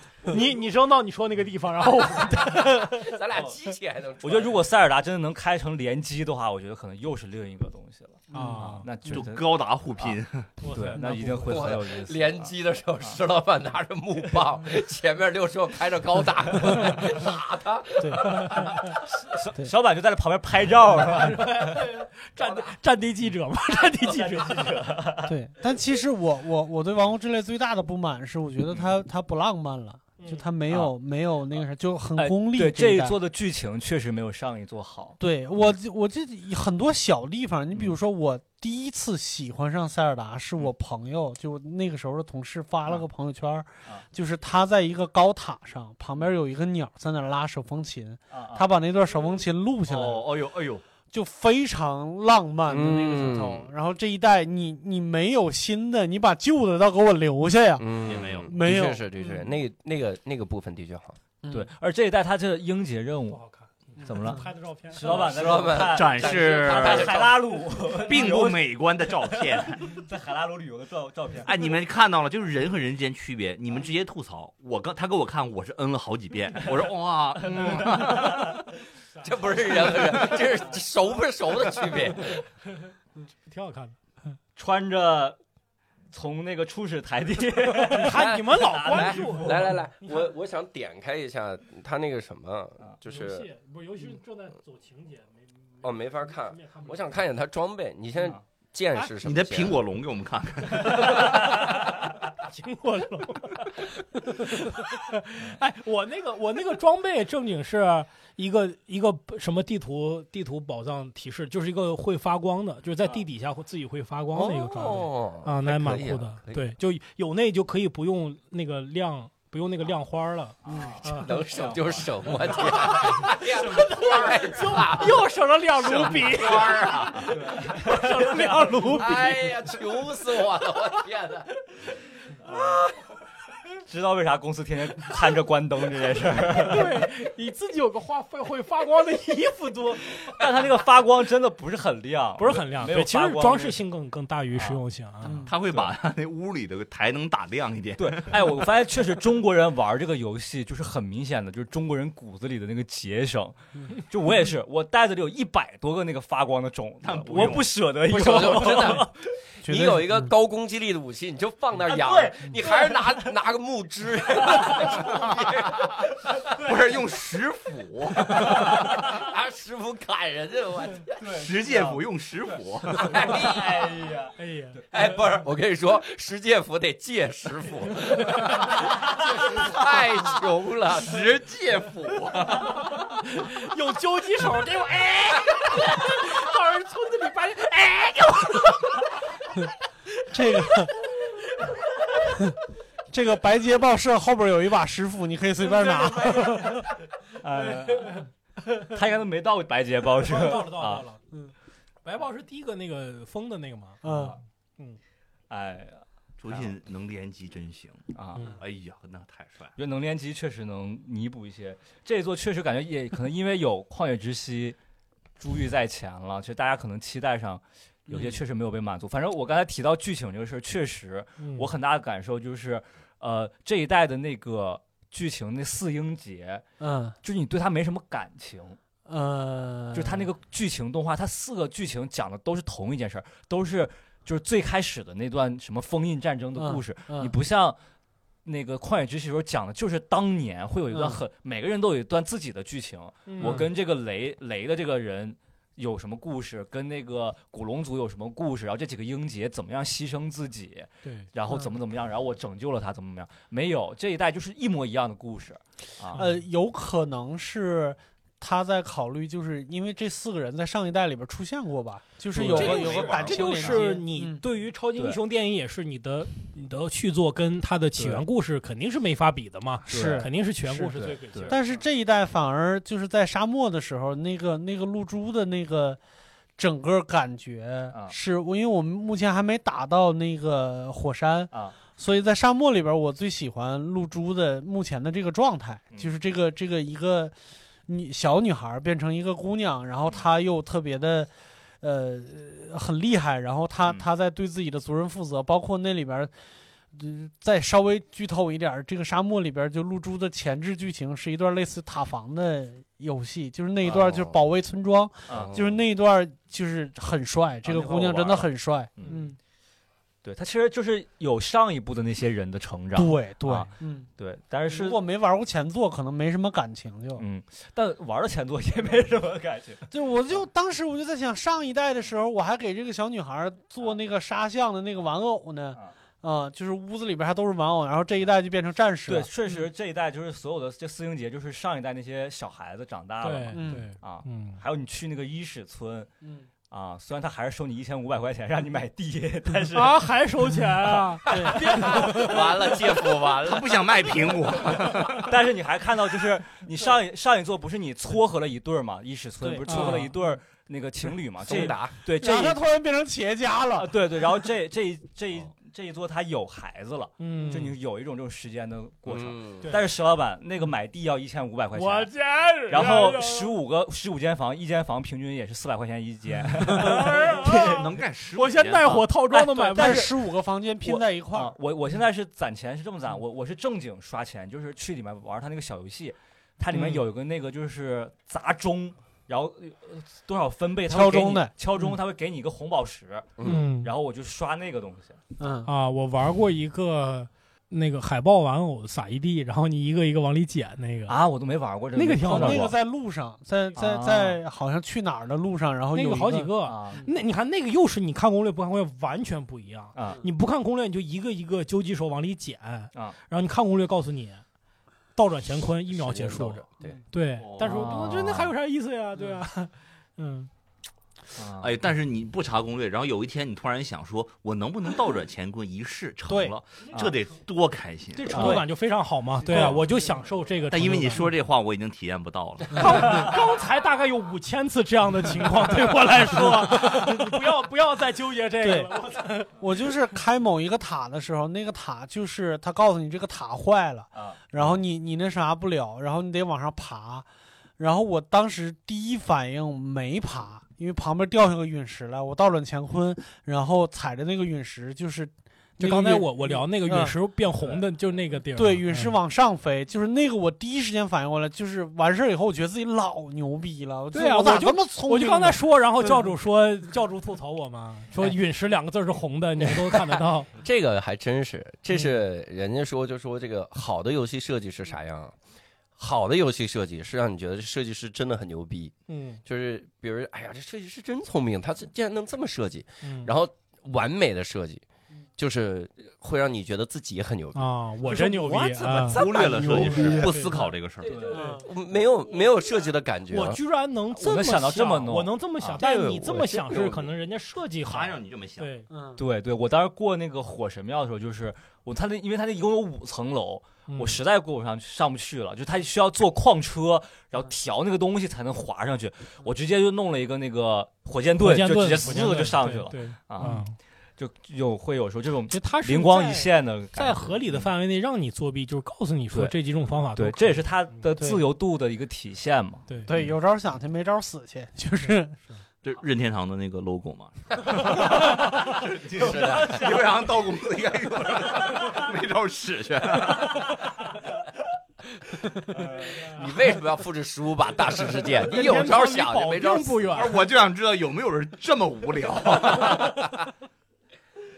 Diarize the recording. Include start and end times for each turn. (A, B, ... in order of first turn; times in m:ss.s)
0:00.3-0:03.2 A
0:02.6-0:04.6 B
0:04.2-0:09.4 C
0:08.3-0:08.8 D
0:08.3-0:08.8 A
0:09.1-0:10.5 E
0:10.6-0:11.7 A
0:10.7-0:13.2 C
0:11.5-0:18.6 B
0:18.0-0:18.4 D
0:18.1-0:18.9 A
0:19.1-0:21.8 C
0:21.0-0:24.8 A
0:22.4-0:22.7 B
0:24.0-0:25.3 C
0:25.2-0:33.2 D
0:30.2-0:30.5 A
0:32.2-0:35.2 C
0:35.2-0:50.4 D
0:48.3-0:48.6 C
0:49.9-0:50.8 E
0:51.1-0:57.9 D
0:52.7-0:53.7 B
0:57.8-1:01.2 B
0:58.0-0:58.5 E
0:58.4-0:59.4 D
1:01.4-1:01.7 D
1:01.5-1:03.4 C
1:03.3-1:05.2 A
1:04.0-1:11.6 C
1:05.0-1:07.4 B
1:05.6-1:07.3 E
1:08.0-1:10.0 E
1:11.4-1:18.6 E
1:17.4-1:18.7 C
1:19.2-1:22.4 B
1:23.5-1:24.0 A
1:24.6-1:25.4 C
1:26.1-1:29.8 C
1:27.9-1:30.3 A
1:28.0-1:33.5 B
1:33.0-1:37.1 A
1:35.8-1:39.8 B
1:39.2-1:41.3 E
1:40.8-1:41.9 C
1:41.0-2:01.3 A
1:54.3-1:56.6 B
2:00.6-2:02.3 C
2:00.7-2:05.2 B
2:03.0-2:09.5 A
2:05.8-2:07.1 E
2:06.2-2:07.3 B
2:07.2-2:08.5 C
2:08.8-2:11.5 B
2:13.8-2:17.0 C
2:16.6-2:20.1 A
2:20.1-2:23.8 C
2:22.4-2:25.4 A
2:24.6-2:24.8 C
2:25.2-2:25.5 D
2:25.4-2:28.6 E
2:28.0-2:39.2 C
2:37.0-2:37.7 E
2:38.0-2:39.1 B
2:39.6-2:40.3 D
2:39.7-2:46.1 B
2:41.9-2:43.3 C
2:44.4-2:45.1 C
2:46.5-2:46.7 C
2:46.5-2:48.8 E
2:48.4-2:51.2 B
2:48.5-2:49.2 C
2:51.1-2:55.1 C
2:51.3-2:53.2 E
2:53.0-2:53.9 B
2:54.4-2:54.8 A
2:54.9-3:02.6 B
3:01.0-3:01.9 E
3:02.8-3:09.0 A
3:10.3-3:11.0 D
3:12.2-3:12.6 D
3:13.1-3:16.8 D
3:15.7-3:16.9 A
3:17.4-3:21.1 C
3:18.0-3:18.2 A
3:20.2-3:21.2 A
3:22.0-3:24.0 A
3:24.0-3:24.4 D
3:24.0-3:24.4 C
3:25.5-3:26.7 C
3:26.4-3:29.7 E
3:28.1-3:28.5 C
3:29.8-3:34.8 C
3:35.4-3:46.6 C
3:41.4-3:41.7 A
3:46.8-3:47.2 D
3:47.2-3:48.8 C
3:49.1-3:50.2 D
3:49.9-3:57.8 C
3:56.6-3:57.3 D
3:58.4-4:16.2 C
4:00.9-4:01.2 D
4:03.3-4:03.7 A
4:16.2-4:16.4 A
4:16.2-4:24.4 D
4:22.3-4:23.7 C
4:22.4-4:31.8 A
4:22.5-4:23.8 E
4:28.0-4:28.2 C
4:29.9-4:31.0 D
4:29.9-4:30.3 C
4:31.0-4:31.6 C
4:31.5-4:36.0 D
4:36.6-4:47.3 D
4:47.9-4:51.3 D
4:51.8-4:56.3 D
4:56.9-5:09.4 D
5:03.9-5:04.3 B
5:05.3-5:05.6 C
5:05.3-5:05.8 B
5:07.6-5:09.2 C
5:10.2-5:15.0 C
5:13.0-5:14.1 D
5:14.7-5:17.2 D
5:17.2-5:19.9 C
5:19.9-5:29.3 D
5:29.1-5:36.1 C
5:33.2-5:34.6 A
5:33.5-5:33.9 D
5:36.7-5:40.1 C
5:39.7-5:42.8 A
5:40.8-5:42.5 C
5:41.3-5:42.2 D
5:41.9-5:43.8 B
5:43.3-5:45.3 E
5:44.9-5:52.6 C
5:49.5-5:50.1 D
5:49.6-5:50.1 A
5:51.4-5:52.0 B
5:52.2-5:53.9 D
5:53.8-6:02.1 C
5:57.2-5:57.7 A
5:59.1-5:59.7 B
6:01.7-6:03.5 A
6:02.7-6:07.7 C
6:06.7-6:10.1 A
6:07.3-6:08.7 E
6:08.6-6:10.2 C
6:09.7-6:11.6 D
6:10.8-6:25.2 C
6:20.9-6:21.5 D
6:23.4-6:23.6 B
6:23.4-6:23.9 A
6:25.4-6:25.7 D
6:25.7-6:31.2 A
6:31.1-6:32.8 C
6:32.0-6:32.7 A
6:32.2-6:37.1 D
6:33.8-6:34.4 C
6:35.9-6:44.4 A
6:36.6-6:37.1 C
6:40.0-6:40.2 C
6:45.2-6:50.5 A
6:45.9-6:47.0 B
6:47.4-6:47.8 E
6:47.6-6:48.5 C
6:51.4-6:51.8 C
6:51.6-6:58.6 E
6:56.3-6:56.5 A
6:56.9-6:57.2 C
6:58.2-7:01.3 A
6:58.3-6:58.6 C
6:58.4-6:58.6 D
6:59.5-6:59.8 E
7:00.7-7:03.3 E
7:02.8-7:09.6 A
7:02.8-7:03.0 D
7:06.8-7:07.2 D
7:08.6-7:08.9 D
7:09.6-7:17.3 D
7:17.8-7:27.2 D
7:25.8-7:29.2 A
7:28.6-7:36.2 D
7:34.1-7:40.5 A
7:39.9-7:45.4 B
7:46.0-7:54.8 B
7:49.1-7:49.4 A
7:53.0-7:53.3 A
7:55.4-8:03.6 B
7:57.6-8:00.7 A
7:59.0-8:01.2 E
7:59.6-8:00.2 D
8:01.0-8:01.6 C
8:01.2-8:01.7 D
8:03.3-8:08.9 A
8:04.2-8:05.8 C
8:05.8-8:07.1 B
8:07.8-8:08.7 E
8:08.9-8:09.2 D
8:09.2-8:23.6 C
8:13.9-8:14.2 A
8:21.4-8:23.8 A
8:24.2-8:27.7 C
8:25.5-8:30.8 A
8:30.2-8:32.9 C
8:32.9-8:33.2 A
8:33.1-8:35.5 D
8:35.8-8:43.8 E
8:37.8-8:39.8 B
8:38.0-8:38.6 C
8:39.2-8:40.1 C
8:41.6-8:42.0 C
8:43.3-8:44.3 C
8:45.7-8:46.4 C
8:46.1-8:50.4 B
8:48.3-8:50.4 A
8:50.2-8:53.3 E